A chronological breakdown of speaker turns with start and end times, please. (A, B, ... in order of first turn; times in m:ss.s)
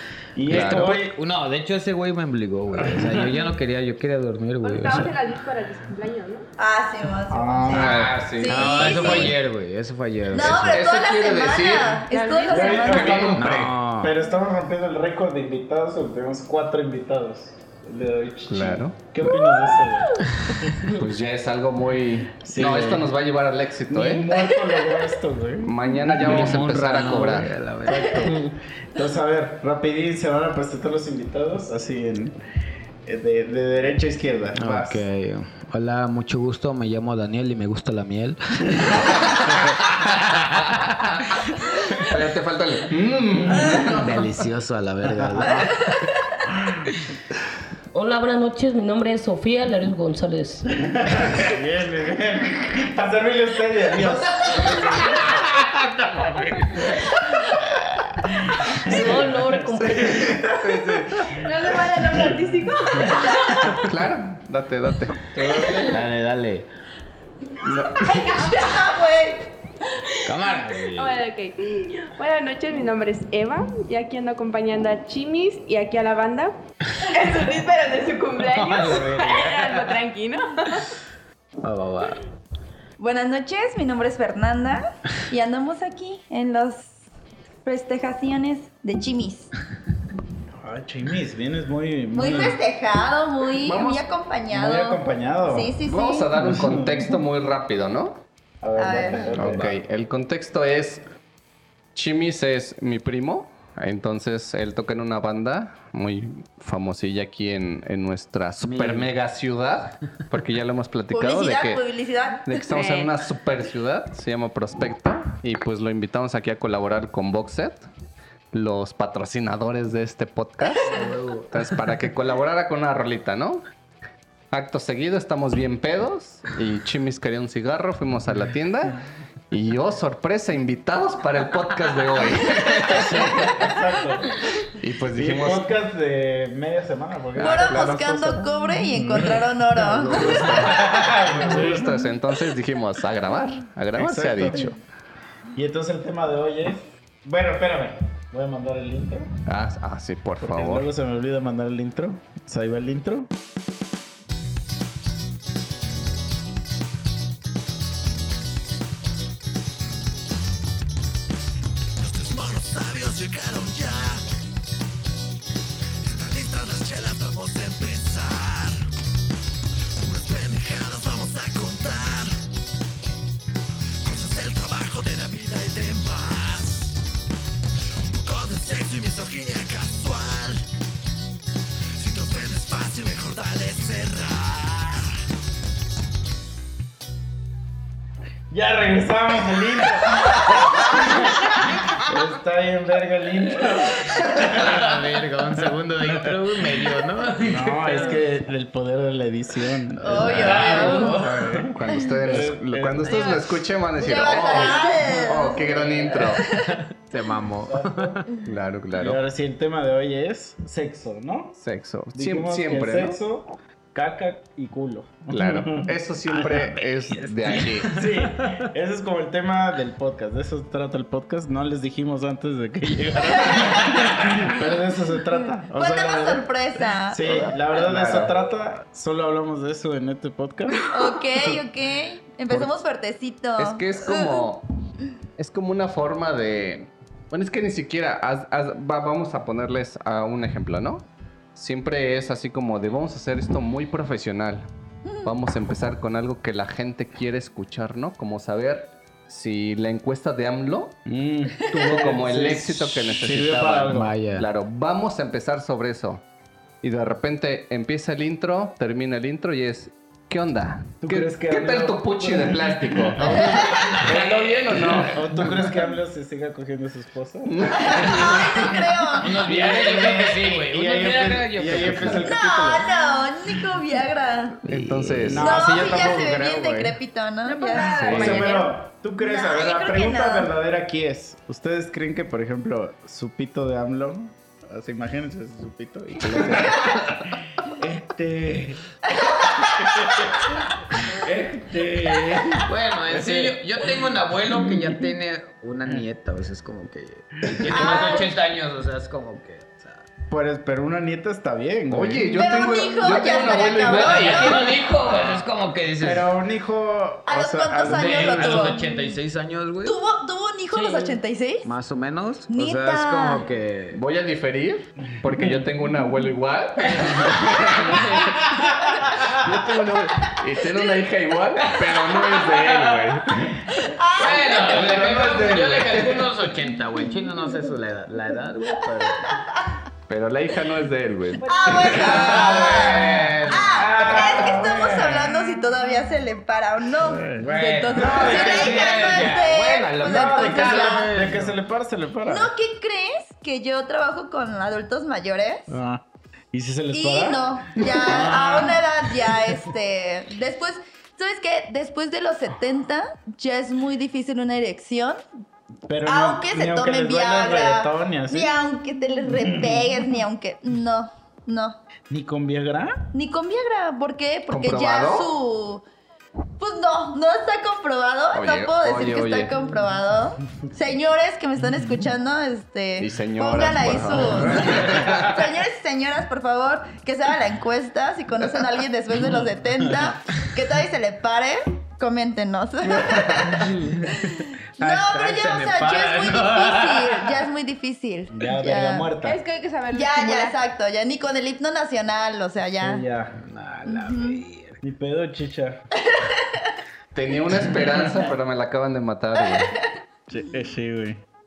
0:00.4-0:01.2 A
0:00.5-0:01.0 B
0:00.5-0:05.1 C
0:04.6-0:06.5 D
0:06.6-0:09.4 E
0:07.3-0:08.2 A
0:07.7-0:09.3 B
0:08.4-0:10.8 C
0:10.3-0:13.4 E
0:10.4-0:12.1 B
0:12.1-0:13.1 D
0:12.5-0:20.9 A
0:12.8-0:13.7 B
0:13.3-0:14.1 C
0:18.5-0:19.0 B
0:20.8-0:24.4 B
0:22.4-0:23.1 A
0:23.9-0:32.4 A
0:25.6-0:27.5 B
0:26.2-0:28.5 C
0:33.1-0:35.0 A
0:34.6-0:41.4 C
0:42.0-0:44.5 B
0:43.8-0:45.8 C
0:45.4-0:45.7 A
0:45.5-0:46.1 E
0:46.5-0:46.9 A
0:47.9-0:50.9 F
0:50.8-0:55.2 A
0:54.0-0:57.2 C
0:58.3-1:01.4 A
0:58.8-1:00.2 F
0:58.9-0:59.2 B
0:59.8-1:01.4 B
1:01.4-1:03.8 D
1:02.0-1:03.2 A
1:03.2-1:03.5 E
1:03.7-1:06.0 B
1:05.4-1:05.9 A
1:05.9-1:06.7 C
1:07.6-1:08.3 B
1:08.1-1:09.5 E
1:10.2-1:11.2 C
1:11.0-1:20.9 D
1:18.4-1:20.0 C
1:21.6-1:22.2 C
1:23.0-1:27.0 E
1:27.6-1:29.5 E
1:30.6-1:32.6 A
1:32.1-1:36.5 E
1:33.6-1:34.0 B
1:34.5-1:35.8 A
1:35.9-1:38.2 B
1:36.5-1:37.0 A
1:38.6-1:39.7 A
1:38.8-1:39.8 C
1:38.8-1:39.3 E
1:39.3-1:41.0 B
1:42.0-1:51.8 B
1:48.6-1:49.1 C
1:51.1-1:52.6 E
1:52.4-1:57.9 B
1:52.7-1:53.1 D
1:58.5-2:03.6 B
2:00.9-2:01.6 C
2:04.5-2:09.0 B
2:09.5-2:13.6 B
2:12.8-2:14.4 A
2:14.6-2:15.7 B
2:15.1-2:21.9 A
2:17.4-2:18.0 B
2:17.4-2:20.7 E
2:20.1-2:24.8 B
2:24.0-2:24.7 A
2:25.6-2:29.3 A
2:29.5-2:30.9 B
2:30.4-2:33.3 A
2:42.1-2:44.2 B
2:46.2-2:48.8 B
2:50.1-2:52.4 B
2:54.1-2:56.7 B
2:58.3-3:00.6 B
3:02.1-3:04.1 B
3:08.5-3:14.9 A
3:14.3-3:18.2 C
3:17.4-3:23.2 A
3:20.0-3:21.5 C
3:20.0-3:21.1 E
3:20.1-3:26.5 B
3:23.0-3:23.4 C
3:24.0-3:26.8 E
3:25.5-3:26.3 A
3:26.6-3:28.3 C
3:27.6-3:28.2 A
3:28.4-3:29.2 B
3:28.9-3:31.6 A
3:31.6-3:33.2 B
3:32.1-3:46.5 A
3:35.3-3:38.0 B
3:45.7-3:47.2 E
3:47.1-3:50.9 A
3:47.2-3:48.3 B
3:50.9-3:54.4 E
3:53.6-3:54.6 B
3:55.4-4:04.7 B
4:05.2-4:11.0 B
4:11.1-4:14.2 A
4:11.7-4:16.2 B
4:13.9-4:14.5 C
4:16.8-4:25.7 B
4:21.0-4:32.9 A
4:23.3-4:23.9 E
4:23.4-4:25.2 C
4:27.5-4:28.7 B
4:27.8-4:29.3 E
4:29.1-4:32.3 C
4:31.7-4:32.2 B
4:32.3-4:34.7 E
4:34.7-4:35.8 B
4:35.3-4:37.0 A
4:35.3-4:38.3 E
4:37.4-4:38.8 D
4:37.9-4:38.5 B
4:38.1-4:48.8 A
4:39.2-4:40.5 E
4:46.3-4:46.9 C
4:49.2-4:49.9 E
4:49.6-4:53.5 A
4:52.7-5:00.1 C
4:57.5-4:58.1 A
4:57.7-4:58.3 E
4:57.9-4:58.2 D
5:00.3-5:02.3 A
5:01.9-5:04.7 B
5:02.3-5:04.7 E
5:03.6-5:06.3 C
5:06.0-5:08.7 A
5:07.3-5:09.0 E
5:07.8-5:10.0 C
5:09.8-5:11.7 E
5:10.7-5:11.2 F
5:11.6-5:14.0 C
5:12.5-5:13.4 E
5:13.9-5:18.4 B
5:16.9-5:18.7 C
5:19.1-5:23.6 B
5:22.0-5:23.1 C
5:23.8-5:24.9 E
5:24.2-5:29.3 C
5:24.6-5:26.3 A
5:30.1-5:32.6 B
5:31.4-5:32.3 D
5:31.5-5:41.1 E
5:31.7-5:34.4 C
5:32.2-5:35.4 A
5:37.0-5:39.2 A
5:37.3-5:41.6 C
5:40.0-5:42.5 A
5:42.3-5:45.7 E
5:45.7-5:48.8 A
5:46.9-5:55.2 E
5:55.9-5:58.5 A
5:56.1-6:01.8 E
5:59.4-5:59.8 A
6:02.1-6:03.1 A
6:03.1-6:05.8 E
6:04.5-6:05.3 B
6:06.6-6:23.8 E
6:08.3-6:09.5 B
6:13.0-6:15.5 B
6:23.0-6:24.0 A
6:24.3-6:29.1 E
6:24.8-6:27.4 C
6:28.3-6:29.4 A
6:29.2-6:30.6 D
6:29.9-6:33.0 E
6:32.8-6:33.4 A
6:33.4-6:34.8 C
6:33.8-6:34.4 E
6:34.8-6:35.8 A
6:36.1-6:36.6 E
6:37.1-6:39.7 B
6:39.4-6:39.7 E
6:40.3-6:41.2 A